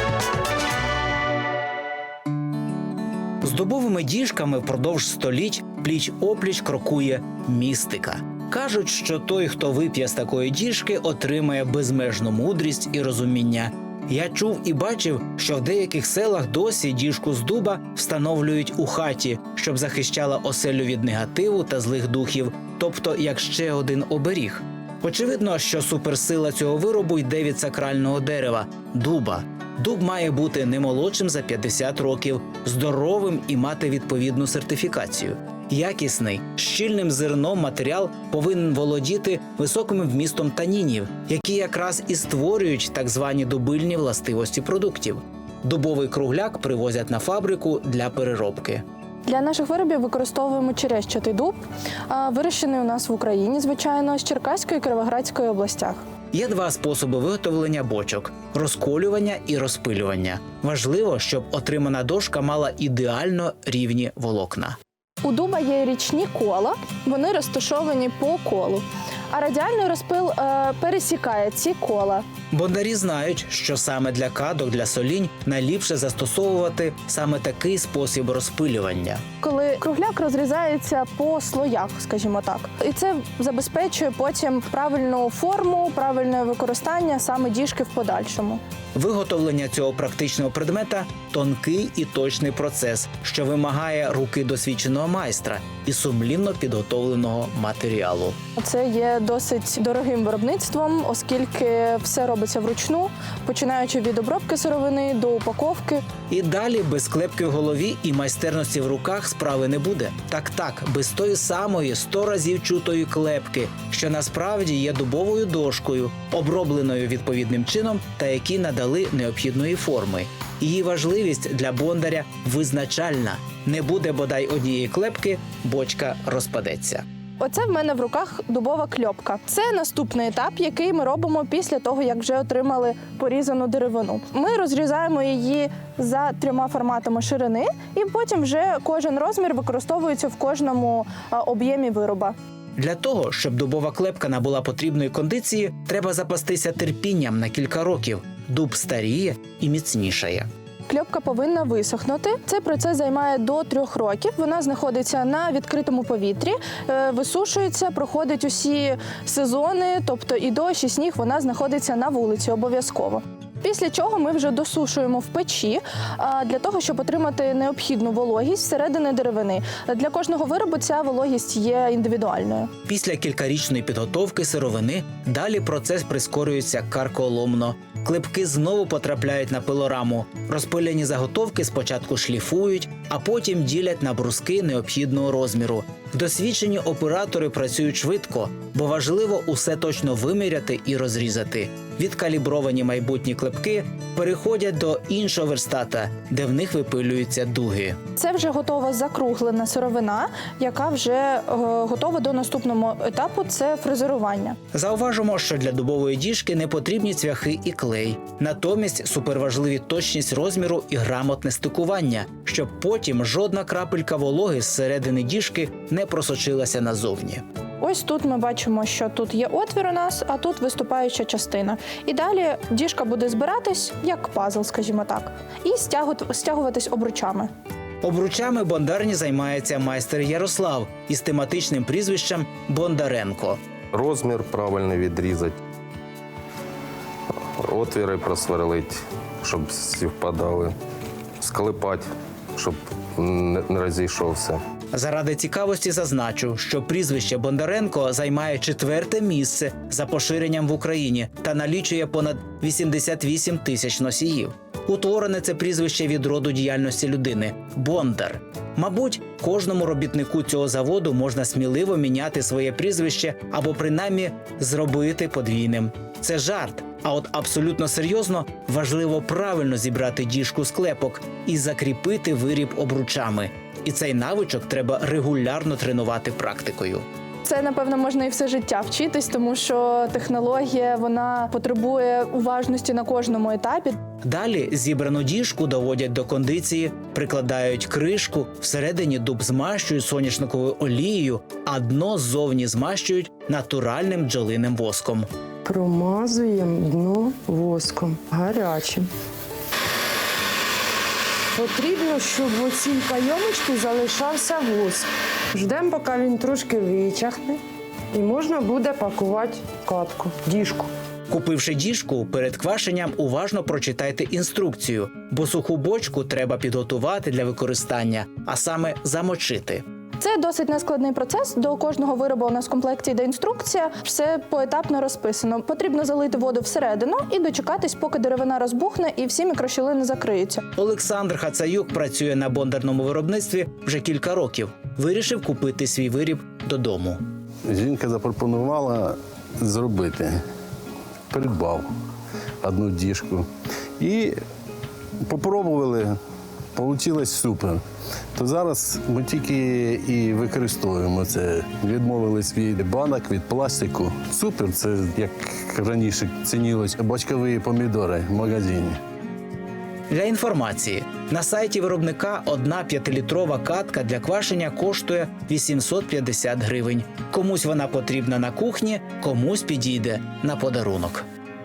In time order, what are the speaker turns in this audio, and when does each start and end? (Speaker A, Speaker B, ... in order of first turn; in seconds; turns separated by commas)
Speaker A: 3.4-48.8, Speaker B: 49.3-51.6, Speaker B: 52.1-56.0, Speaker A: 56.3-64.8, Speaker B: 65.2-72.2, Speaker A: 72.5-79.2, Speaker B: 79.4-88.6, Speaker A: 89.0-98.4, Speaker B: 98.6-106.1, Speaker A: 106.3-127.0, Speaker B: 127.4-142.3, Speaker A: 142.8-150.5, Speaker B: 150.9-172.7, Speaker A: 172.9-198.0, Speaker B: 198.2-204.6, Speaker A: 204.7-217.4, Speaker B: 217.8-227.5, Speaker A: 228.0-233.6, Speaker C: 233.9-235.6, Speaker C: 237.6-240.7, Speaker C: 241.4-242.1, Speaker C: 242.6-244.6, Speaker A: 244.9-277.0, Speaker B: 277.4-284.0, Speaker A: 284.2-295.3, Speaker D: 295.6-299.1, Speaker D: 301.6-307.6, Speaker D: 308.1-310.9, Speaker A: 311.3-319.8, Speaker B: 320.2-330.6, Speaker A: 330.8-337.2, Speaker E: 337.7-340.4, Speaker E: 341.3-341.9, Speaker E: 342.6-343.5, Speaker E: 344.0-344.4, Speaker E: 345.2-346.2, Speaker E: 346.8-347.8, Speaker E: 348.4-359.0, Speaker A: 360.1-371.2